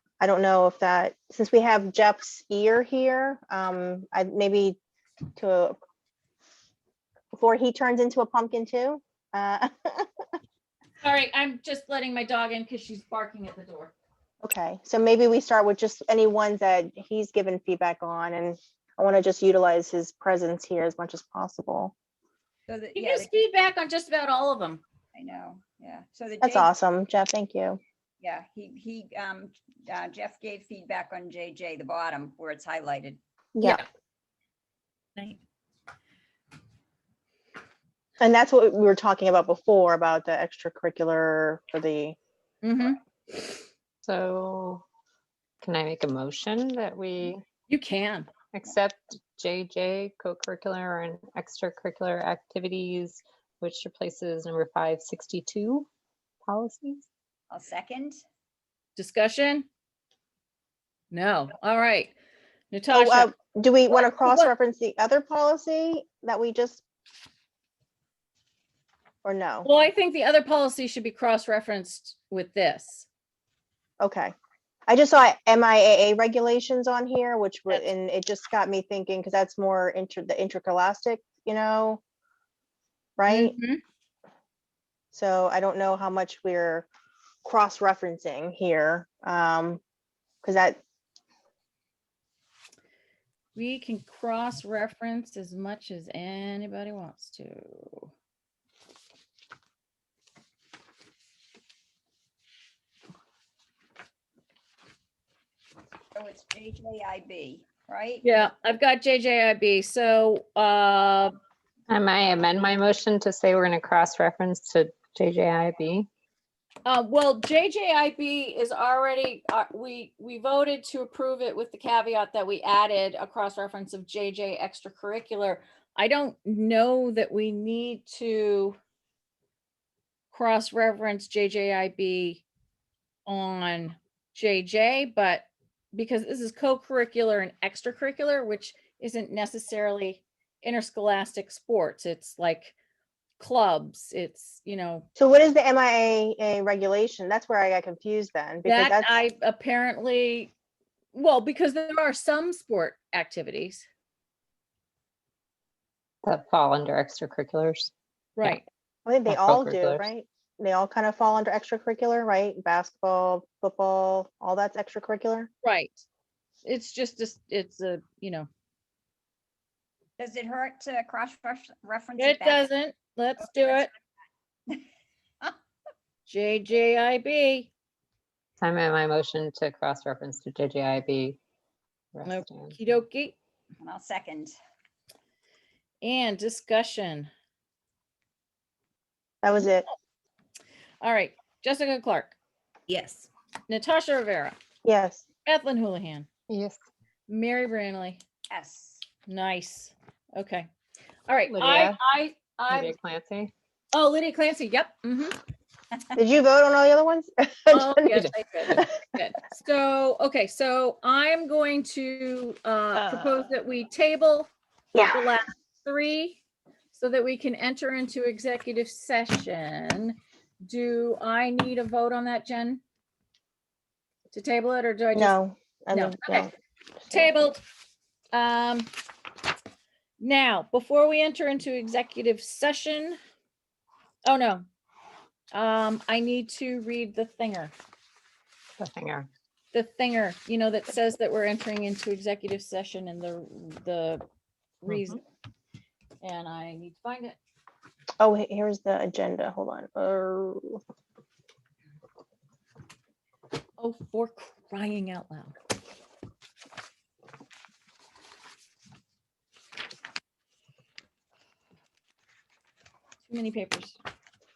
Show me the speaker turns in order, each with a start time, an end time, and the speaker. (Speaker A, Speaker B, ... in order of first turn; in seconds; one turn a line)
Speaker A: 0.2-4.8
Speaker A: 5.3-5.8
Speaker A: 7.3-10.1
Speaker B: 11.0-13.9
Speaker A: 14.4-21.9
Speaker C: 22.7-23.3
Speaker B: 22.9-24.8
Speaker C: 25.1-26.7
Speaker A: 26.4-27.8
Speaker C: 28.2-33.2
Speaker A: 33.5-33.8
Speaker A: 38.2-42.1
Speaker B: 42.6-43.0
Speaker D: 44.0-44.8
Speaker D: 45.6-47.4
Speaker B: 47.7-48.3
Speaker D: 48.5-55.9
Speaker D: 56.5-57.0
Speaker C: 57.5-58.2
Speaker B: 59.0-59.6
Speaker B: 61.1-62.1
Speaker B: 62.7-63.3
Speaker A: 62.9-66.8
Speaker B: 63.9-64.5
Speaker A: 69.2-69.7
Speaker B: 69.6-73.1
Speaker A: 74.0-74.3
Speaker A: 74.9-82.0
Speaker A: 83.2-83.5
Speaker B: 83.3-83.8
Speaker A: 85.1-86.9
Speaker A: 87.4-89.8
Speaker A: 90.4-90.8
Speaker B: 93.5-98.1
Speaker C: 106.2-108.2
Speaker B: 108.2-111.3
Speaker D: 111.9-116.1
Speaker B: 116.8-128.8
Speaker B: 130.3-132.4
Speaker B: 133.2-142.7
Speaker B: 143.4-145.1
Speaker A: 145.2-149.2
Speaker B: 148.6-150.5
Speaker B: 151.1-153.8
Speaker D: 156.2-157.9
Speaker B: 158.3-158.6
Speaker A: 159.1-165.5
Speaker D: 159.3-160.1
Speaker B: 165.6-166.0
Speaker B: 166.6-168.5
Speaker C: 170.2-172.7
Speaker B: 172.2-173.9
Speaker C: 173.4-173.9
Speaker B: 176.2-177.7
Speaker D: 178.6-181.4
Speaker D: 182.1-182.7
Speaker B: 182.2-183.3
Speaker C: 183.8-184.5
Speaker B: 186.0-187.3
Speaker A: 189.4-189.9
Speaker B: 191.0-192.3
Speaker C: 192.9-193.3
Speaker B: 193.7-194.6
Speaker A: 194.8-195.2
Speaker B: 195.4-196.3
Speaker D: 196.5-196.8
Speaker B: 197.3-198.2
Speaker C: 198.5-199.0
Speaker B: 199.2-200.7
Speaker B: 201.3-202.9
Speaker D: 201.5-202.0
Speaker D: 202.7-203.5
Speaker B: 203.9-205.4
Speaker A: 206.2-208.8
Speaker B: 207.7-214.5
Speaker A: 214.9-215.2
Speaker B: 215.0-216.4
Speaker B: 216.9-222.8
Speaker B: 224.3-225.3
Speaker A: 225.1-226.5
Speaker B: 225.9-226.4
Speaker B: 227.1-227.6
Speaker B: 228.3-228.9
Speaker B: 230.2-233.2
Speaker B: 234.2-234.6
Speaker B: 235.5-237.7
Speaker D: 238.8-239.3
Speaker B: 239.7-244.2
Speaker B: 244.8-245.2
Speaker D: 244.9-245.1
Speaker B: 246.2-247.4
Speaker A: 248.2-250.8
Speaker B: 253.8-255.6
Speaker B: 263.3-264.0